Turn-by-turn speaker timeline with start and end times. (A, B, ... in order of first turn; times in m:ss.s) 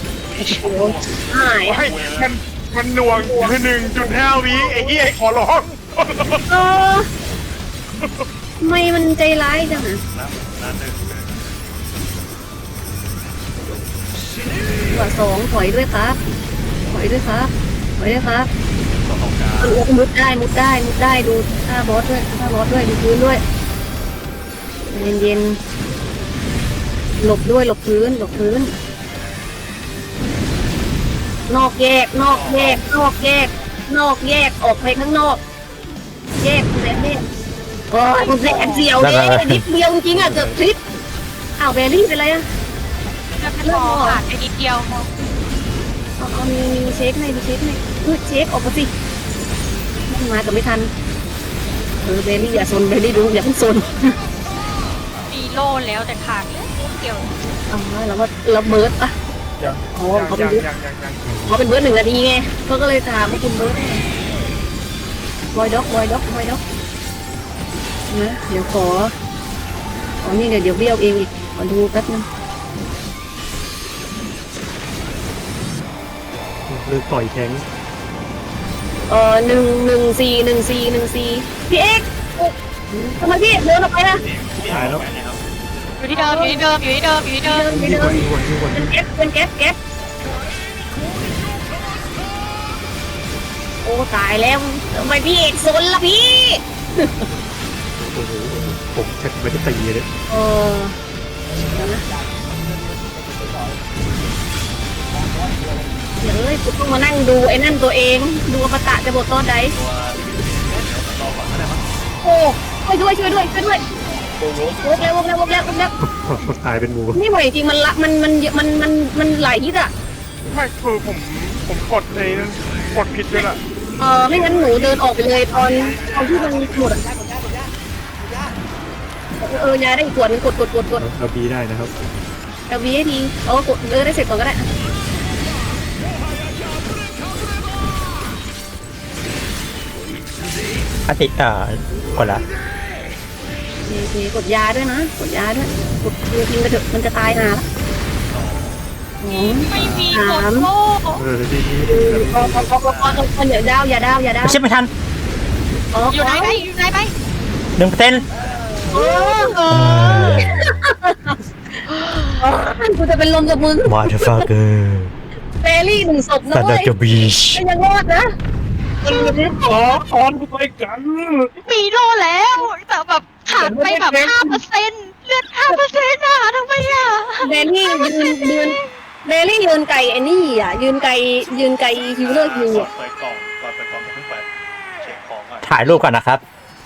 0:00.3-0:02.4 A
0:00.5-0:01.8 B
0:01.7-0:06.4 C
0:03.1-0:03.5 B
0:06.5-0:07.1 B
0:08.6-0:10.0 B
0:10.1-0:11.4 A
0:14.9-0:16.2 B
0:16.9-0:18.5 B
0:19.0-0:19.8 A
0:19.6-0:23.4 B
0:24.9-0:25.6 B
0:27.2-0:28.7 B
0:31.5-0:35.4 B
0:32.3-0:32.8 A
0:36.4-0:37.2 B
0:37.9-0:40.8 B
0:39.0-0:39.6 D
0:40.1-0:40.6 E
0:41.6-0:42.4 B
0:43.4-0:45.1 F
0:43.6-0:44.2 B
0:46.2-0:48.9 B
0:50.1-0:50.9 B
0:52.0-0:54.1 B
0:55.3-0:57.3 F
0:57.7-0:59.1 B
0:59.6-1:01.4 C
0:59.9-1:00.6 B
1:01.2-1:01.6 E
1:01.5-1:04.0 B
1:05.5-1:06.6 B
1:08.1-1:09.1 B
1:10.2-1:12.2 B
1:16.7-1:17.6 E
1:19.1-1:24.2 B
1:24.2-1:25.4 A
1:24.6-1:25.0 E
1:26.0-1:27.7 F
1:26.1-1:26.6 B
1:27.4-1:29.8 B
1:27.7-1:28.9 E
1:33.8-1:37.1 B
1:38.1-1:40.1 E
1:40.3-1:41.0 B
1:41.7-1:42.0 B
1:46.2-1:49.7 B
1:49.7-1:51.8 A
1:52.2-1:53.8 B
1:54.7-1:55.9 B
1:56.0-1:57.2 E
1:57.1-1:59.9 B
2:00.5-2:03.6 C
2:04.0-2:07.0 B
2:04.4-2:04.8 A
2:05.5-2:07.0 A
2:09.4-2:11.0 B
2:11.0-2:11.9 E
2:12.7-2:14.6 B
2:21.1-2:22.4 D
2:23.8-2:27.6 B
2:28.3-2:28.8 A
2:29.2-2:30.7 B
2:29.3-2:31.2 F
2:29.7-2:30.2 A
2:31.2-2:32.7 E
2:31.9-2:34.6 B
2:32.8-2:33.3 A
2:34.4-2:34.9 D
2:35.9-2:36.6 B
2:36.1-2:37.1 F
2:37.8-2:38.2 D
2:37.9-2:38.2 E
2:38.4-2:38.8 A
2:38.9-2:41.4 B
2:39.2-2:39.6 F
2:39.7-2:40.8 D
2:41.9-2:42.4 F
2:42.4-2:44.5 B
2:43.8-2:45.1 D
2:45.6-2:46.9 B
2:46.5-2:47.6 D
2:47.5-2:48.3 B
2:49.0-2:49.5 B
2:49.1-2:51.5 C
2:51.6-2:58.9 F
2:53.6-2:54.6 B
2:57.4-3:02.9 B
3:02.2-3:04.5 A
3:05.0-3:05.8 A
3:05.6-3:06.4 D